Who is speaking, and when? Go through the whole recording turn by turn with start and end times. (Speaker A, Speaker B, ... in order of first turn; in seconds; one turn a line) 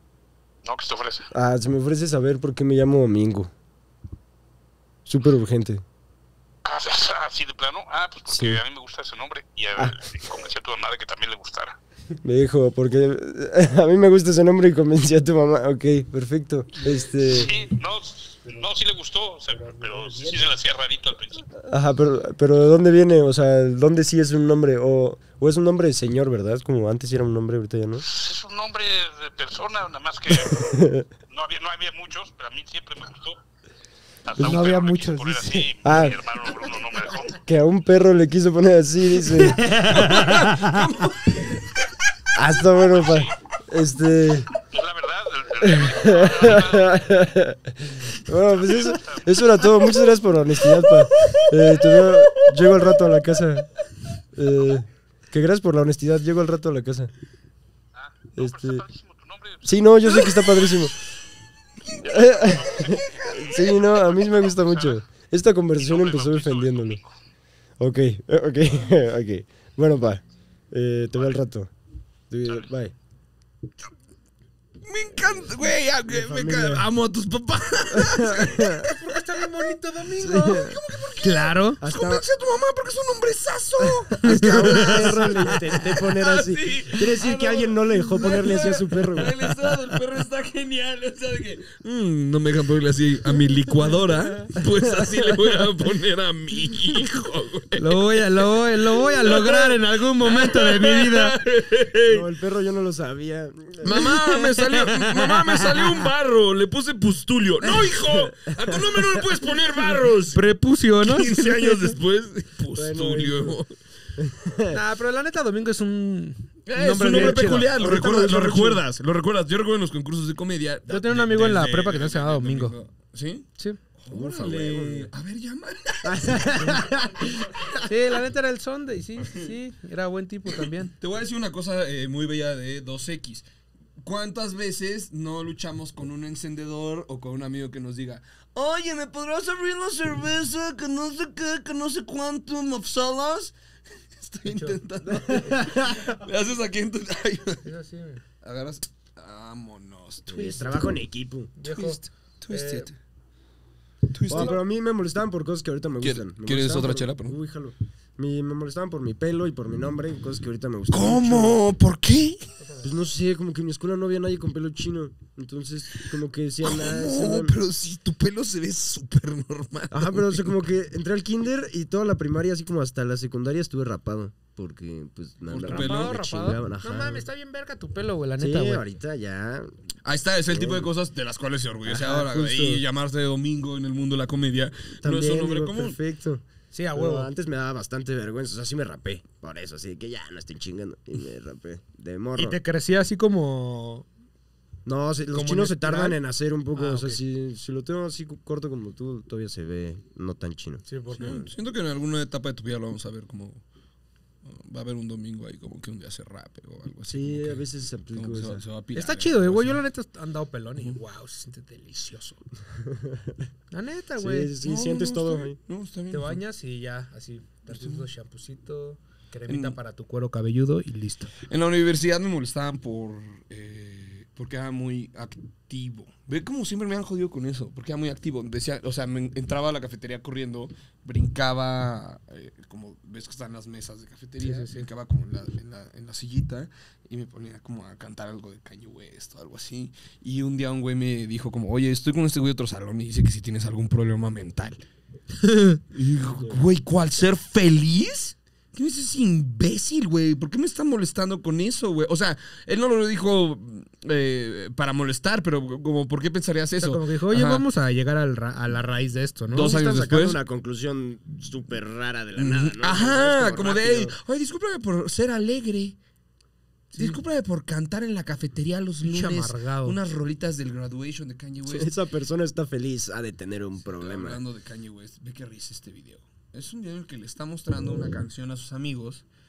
Speaker A: 0.6-1.3
Speaker B: 1.3-3.5
Speaker B: 5.0-5.8
Speaker A: 6.7-11.8
Speaker B: 8.3-8.6
Speaker B: 9.8-10.4
Speaker B: 12.2-17.5
Speaker C: 16.8-17.1
Speaker A: 17.3-21.5
Speaker C: 19.5-20.4
Speaker B: 21.6-28.0
Speaker A: 28.1-30.7
Speaker B: 30.3-31.1
Speaker A: 31.3-33.4
Speaker A: 34.2-37.4
Speaker C: 34.4-35.7
Speaker B: 35.8-36.5
Speaker B: 37.4-39.6
Speaker C: 39.4-40.8
Speaker D: 39.7-41.9
Speaker B: 42.3-44.5
Speaker A: 42.7-43.3
Speaker A: 44.5-47.2
Speaker B: 45.6-53.7
Speaker A: 48.5-49.7
Speaker D: 51.2-52.8
Speaker B: 54.3-57.1
Speaker A: 58.2-60.9
Speaker B: 58.4-58.8
Speaker B: 59.6-60.9
Speaker D: 61.8-63.7
Speaker A: 62.0-63.1
Speaker B: 62.0-67.0
Speaker A: 64.0-65.0
Speaker A: 65.8-67.1
Speaker B: 67.8-71.7
Speaker B: 72.3-72.9
Speaker D: 74.8-78.9
Speaker B: 76.1-76.9
Speaker B: 77.9-78.8
Speaker C: 78.8-81.8
Speaker B: 80.2-80.8
Speaker D: 80.2-102.3
Speaker B: 81.8-82.2
Speaker B: 83.8-89.3
Speaker C: 84.2-86.0
Speaker C: 97.8-101.4
Speaker B: 102.1-104.0
Speaker D: 103.8-110.5
Speaker C: 103.8-106.0
Speaker B: 108.0-108.3
Speaker C: 110.3-111.9
Speaker D: 111.0-113.7
Speaker B: 112.7-113.6
Speaker B: 114.2-114.8
Speaker C: 114.7-118.8
Speaker D: 116.7-123.5
Speaker B: 117.1-117.4
Speaker C: 120.9-122.8
Speaker D: 124.0-127.8
Speaker B: 124.1-125.1
Speaker B: 126.0-127.2
Speaker C: 126.1-126.8
Speaker C: 127.8-130.9
Speaker D: 129.2-129.5
Speaker D: 130.5-133.4
Speaker D: 134.0-143.5
Speaker D: 144.2-147.6
Speaker C: 144.4-145.6
Speaker B: 145.3-146.0
Speaker C: 147.6-148.2
Speaker D: 148.4-150.9
Speaker B: 150.3-151.5
Speaker C: 151.6-152.9
Speaker D: 151.7-152.9
Speaker D: 154.1-154.6
Speaker B: 154.3-161.6
Speaker C: 154.3-154.6
Speaker D: 156.0-157.3
Speaker D: 160.9-162.4
Speaker B: 162.8-167.6
Speaker D: 166.6-170.6
Speaker B: 169.9-177.2
Speaker D: 175.5-176.1
Speaker C: 175.6-178.8
Speaker B: 178.4-179.8
Speaker D: 180.0-186.0
Speaker B: 180.5-180.9
Speaker B: 181.8-182.4
Speaker C: 182.1-182.8
Speaker B: 185.0-192.6
Speaker C: 186.7-187.3
Speaker C: 192.4-194.1
Speaker B: 194.8-201.4
Speaker C: 195.3-196.2
Speaker C: 196.7-197.2
Speaker C: 200.8-201.4
Speaker D: 201.2-203.6
Speaker D: 204.4-209.8
Speaker B: 207.1-208.6
Speaker C: 208.9-212.4
Speaker B: 212.8-213.3
Speaker C: 213.7-214.5
Speaker B: 214.2-215.6
Speaker D: 214.6-216.4
Speaker C: 216.1-221.3
Speaker D: 217.7-218.0
Speaker D: 219.5-219.8
Speaker D: 221.5-244.8
Speaker C: 234.4-234.9
Speaker C: 245.4-245.8
Speaker D: 245.9-257.6
Speaker B: 246.3-246.6
Speaker C: 256.8-259.7
Speaker B: 259.5-264.1
Speaker D: 259.5-260.4
Speaker D: 262.4-266.0
Speaker C: 266.9-267.2
Speaker D: 267.0-271.9
Speaker C: 269.0-270.0
Speaker B: 271.6-274.4
Speaker D: 273.8-279.2